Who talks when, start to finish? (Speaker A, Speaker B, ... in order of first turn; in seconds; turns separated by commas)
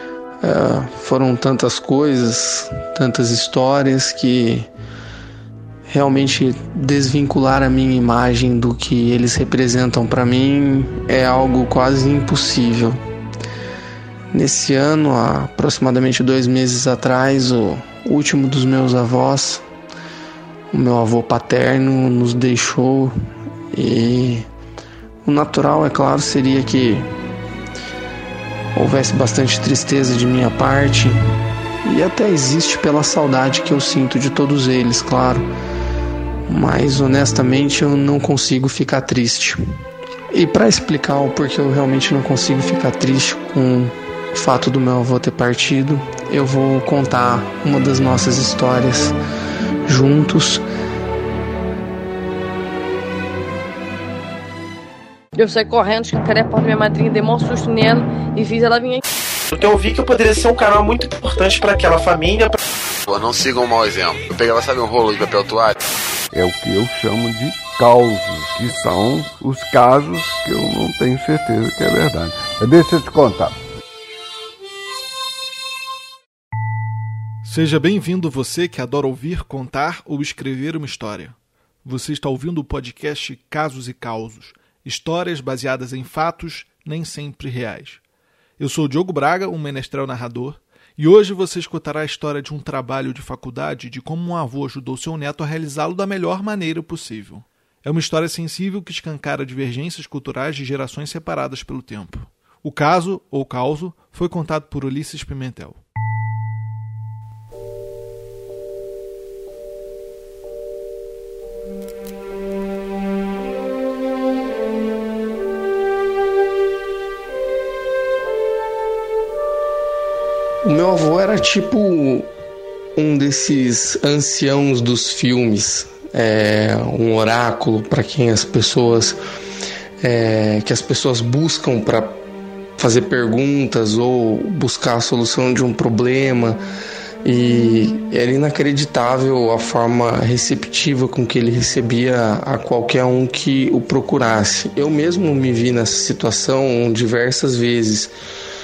Speaker A: 0.4-4.7, Speaker A: 5.9-13.0, Speaker A: 14.3-19.6, Speaker A: 20.7-23.1, Speaker A: 23.7-24.4, Speaker A: 25.2-27.1, Speaker A: 28.7-31.2, Speaker A: 31.8-35.5, Speaker A: 36.5-39.6, Speaker A: 40.3-49.2, Speaker A: 49.9-50.6, Speaker B: 55.4-59.0, Speaker C: 59.5-62.6, Speaker D: 63.1-65.8, Speaker E: 66.3-73.6, Speaker F: 77.4-88.0, Speaker F: 88.6-105.8, Speaker A: 120.6-122.3, Speaker A: 123.0-129.2, Speaker A: 130.0-132.2, Speaker A: 132.8-136.6, Speaker A: 137.2-148.1